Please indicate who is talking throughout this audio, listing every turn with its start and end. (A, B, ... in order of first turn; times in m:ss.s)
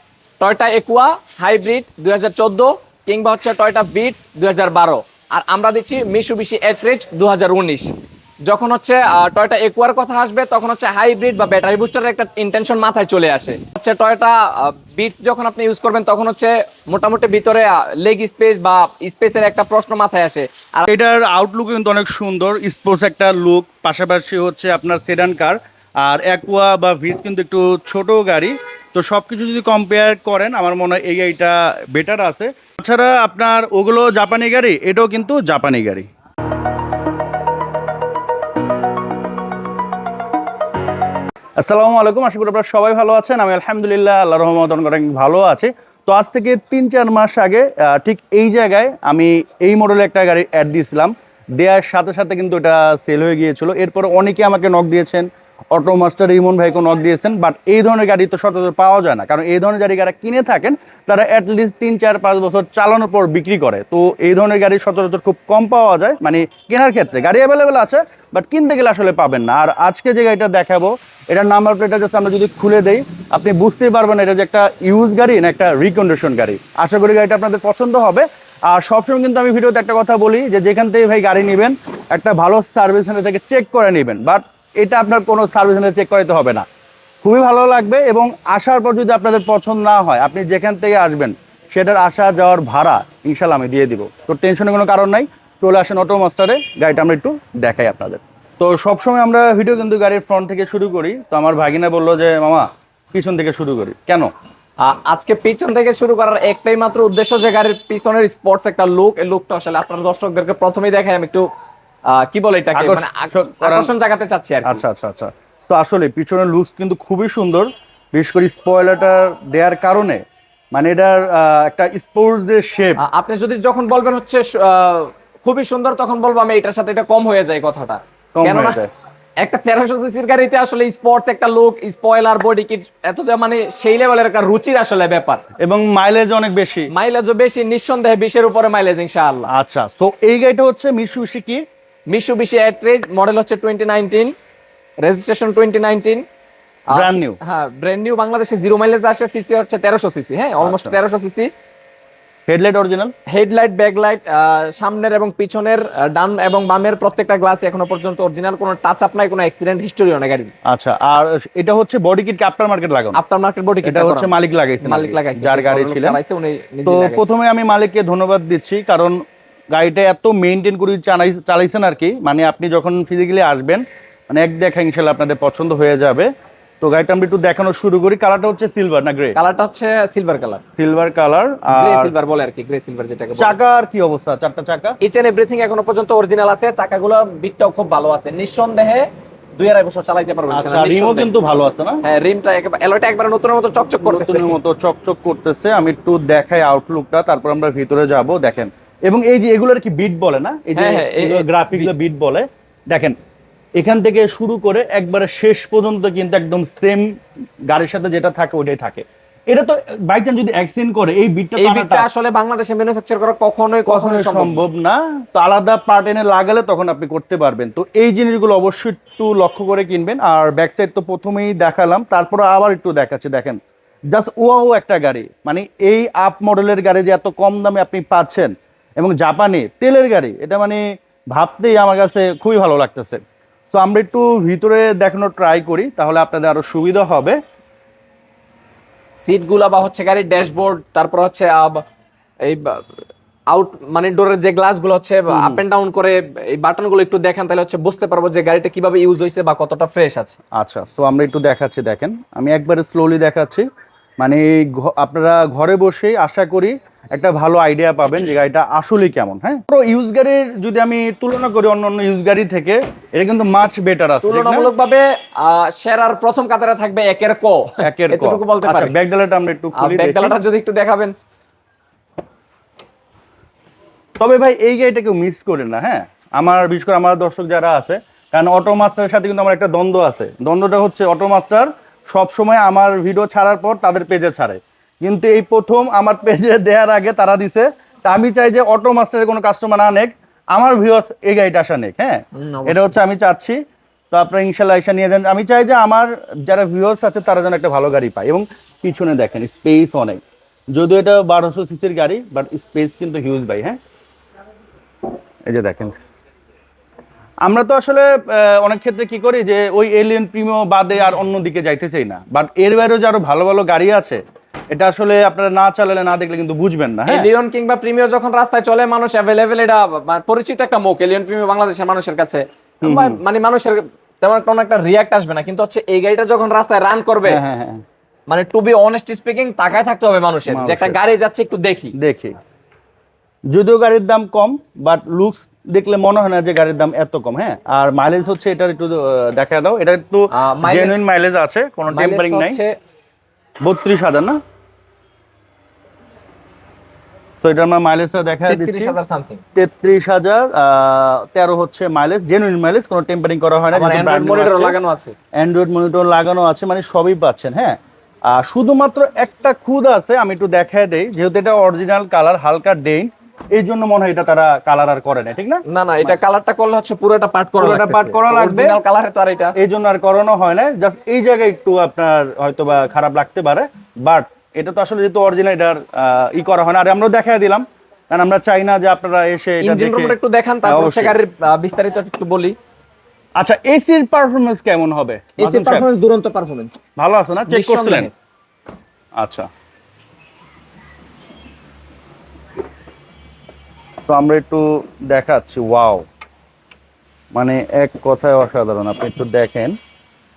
0:00.4-0:07.9 A
0:08.4-0:20.9 A
0:20.9-0:36.0 B
0:41.6-1:26.6 B
1:27.2-1:44.3 B
1:44.8-1:51.5 A
1:52.1-1:54.8 A
1:52.7-1:53.9 B
1:54.6-2:00.2 B
2:00.7-2:03.0 B
2:03.0-2:08.8 A
2:08.3-2:08.9 B
2:09.4-2:15.4 A
2:15.6-2:16.9 B
2:16.9-2:19.5 A
2:19.5-2:21.6 B
2:22.1-2:24.3 A
2:25.0-2:26.2 A
2:26.9-2:27.4 B
2:26.9-2:31.5 A
2:30.6-2:31.0 B
2:32.5-2:33.1 B
2:33.3-2:40.5 A
2:40.7-2:43.2 B
2:43.1-2:47.3 A
2:43.8-2:46.2 B
2:46.8-2:49.2 B
2:49.7-2:56.3 B
2:56.8-2:59.4 B
2:59.3-3:00.6 A
3:00.8-3:02.1 B
3:01.7-3:03.6 A
3:03.4-3:05.0 B
3:05.0-3:11.3 A
3:10.5-3:12.0 B
3:12.0-3:14.6 A
3:14.0-3:23.1 B
3:20.8-3:21.9 A
3:23.8-3:27.1 B
3:27.7-3:32.1 B
3:31.6-3:34.6 A
3:33.9-3:43.6 B
3:44.1-3:50.8 B
3:51.3-3:53.2 B
3:53.7-3:57.4 B
3:59.2-4:01.8 A
4:02.4-4:03.0 A
4:03.5-4:10.4 A
4:05.3-4:05.6 B
4:10.6-4:13.6 B
4:14.2-4:24.7 B
4:24.2-4:28.9 A
4:27.8-4:30.4 B
4:29.7-4:31.1 A
4:34.2-4:53.6 B
4:52.4-4:53.0 A
4:54.1-5:00.2 B
5:00.7-5:03.8 B
5:05.5-5:05.9 B
5:07.4-5:14.2 B
5:14.7-5:17.3 B
5:17.1-5:27.4 A
5:22.8-5:23.2 B
5:27.2-5:27.8 B
5:28.3-5:31.9 A
5:30.5-5:31.0 B
5:32.0-5:32.3 B
5:33.5-5:42.6 B
5:40.3-5:41.0 A
5:41.8-5:42.7 A
5:43.6-5:44.4 B
5:47.4-5:49.0 B
5:48.5-5:49.4 A
5:49.6-5:54.8 B
5:53.7-5:55.1 A
5:55.4-5:57.8 B
5:58.3-6:06.2 B
6:05.7-6:09.6 A
6:07.6-6:08.8 B
6:09.6-6:21.2 B
6:19.6-6:22.5 A
6:23.4-6:25.9 B
6:25.4-6:26.8 A
6:27.0-6:28.1 B
6:27.5-6:28.1 A
6:29.2-6:29.5 B
6:34.1-6:36.0 B
6:37.3-6:39.8 B